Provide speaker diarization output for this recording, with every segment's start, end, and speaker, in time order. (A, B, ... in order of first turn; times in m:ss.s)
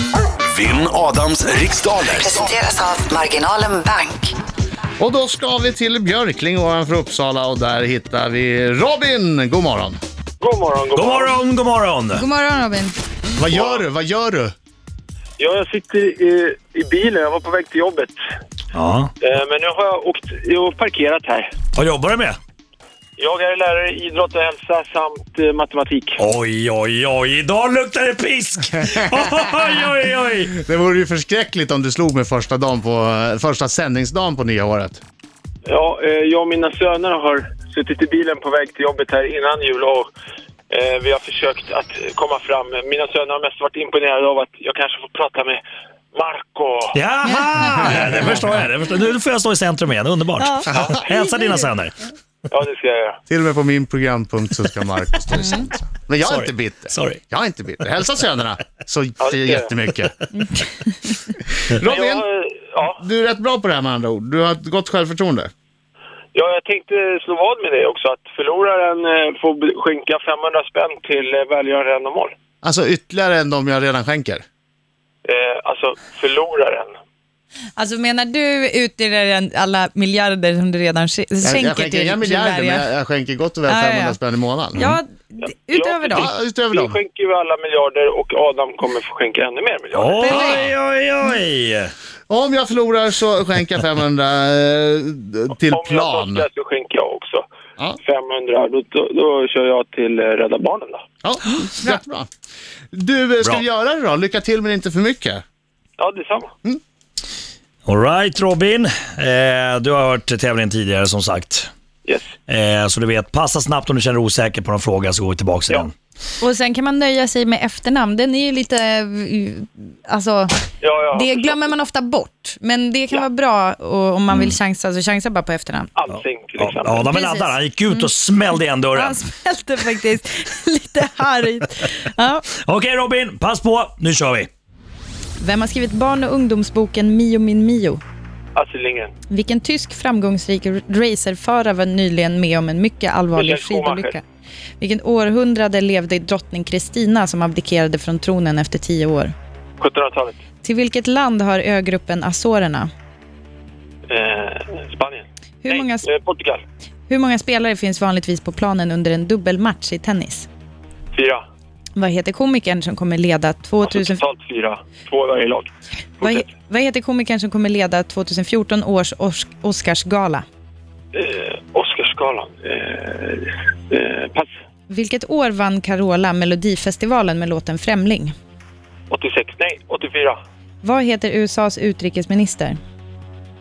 0:00.4-0:02.6 A
0:02.2-0:04.3 B
0:05.0-0:10.0 C
0:10.4-0:11.4 D
0:10.9-0:12.2 E
0:12.1-0:12.9 F
0:13.4-0:14.5 C
0:13.5-0:13.8 D
0:15.4-0:18.1 D
0:18.7-0:19.1 E
0:19.2-0:21.6 D
0:21.7-0:22.4 E
0:23.2-0:26.2 D
0:26.2-0:30.6 E
0:30.5-0:35.0 C
0:35.6-0:40.1 D
0:40.7-0:45.6 D
0:46.1-0:47.0 D
0:46.9-0:51.9 E
0:47.3-0:48.2 F
0:50.4-0:50.7 F
0:50.7-0:51.1 D
0:52.5-0:53.2 D
0:53.3-1:00.2 C
0:55.4-0:55.7 F
0:56.2-0:57.2 E
0:59.2-0:59.7 D
1:01.7-1:02.2 C
1:01.8-1:03.0 D
1:02.9-1:05.5 C
1:06.3-1:12.3 D
1:12.6-1:14.4 C
1:15.2-1:16.9 D
1:17.8-1:22.9 F
1:21.4-1:24.8 C
1:23.7-1:24.2 F
1:24.7-1:26.3 F
1:25.7-1:30.5 D
1:26.1-1:27.0 C
1:29.9-1:31.9 E
1:30.2-1:30.6 F
1:30.3-1:30.7 C
1:32.3-1:36.5 C
1:35.7-1:37.4 D
1:38.0-1:41.0 D
1:41.2-1:42.3 C
1:42.9-1:45.4 C
1:46.0-1:46.5 D
1:47.8-1:51.7 E
1:52.0-1:52.3 D
1:52.5-1:55.9 E
1:56.4-2:00.5 F
2:00.8-2:01.6 D
2:01.1-2:05.9 F
2:06.0-2:07.0 D
2:06.6-2:09.2 E
2:07.1-2:08.1 F
2:08.9-2:12.5 F
2:12.6-2:14.5 E
2:15.4-2:18.0 F
2:18.5-2:19.1 D
2:19.3-2:24.2 F
2:23.3-2:24.2 D
2:24.8-2:29.3 F
2:29.8-2:30.4 D
2:30.6-2:32.9 F
2:34.1-2:36.6 D
2:35.6-2:36.1 F
2:37.1-2:40.5 F
2:41.1-2:41.4 D
2:42.0-2:44.2 F
2:43.8-2:46.5 D
2:46.2-2:50.4 F
2:51.1-2:54.5 D
2:54.9-2:58.3 F
2:59.1-3:00.4 D
3:00.8-3:02.8 F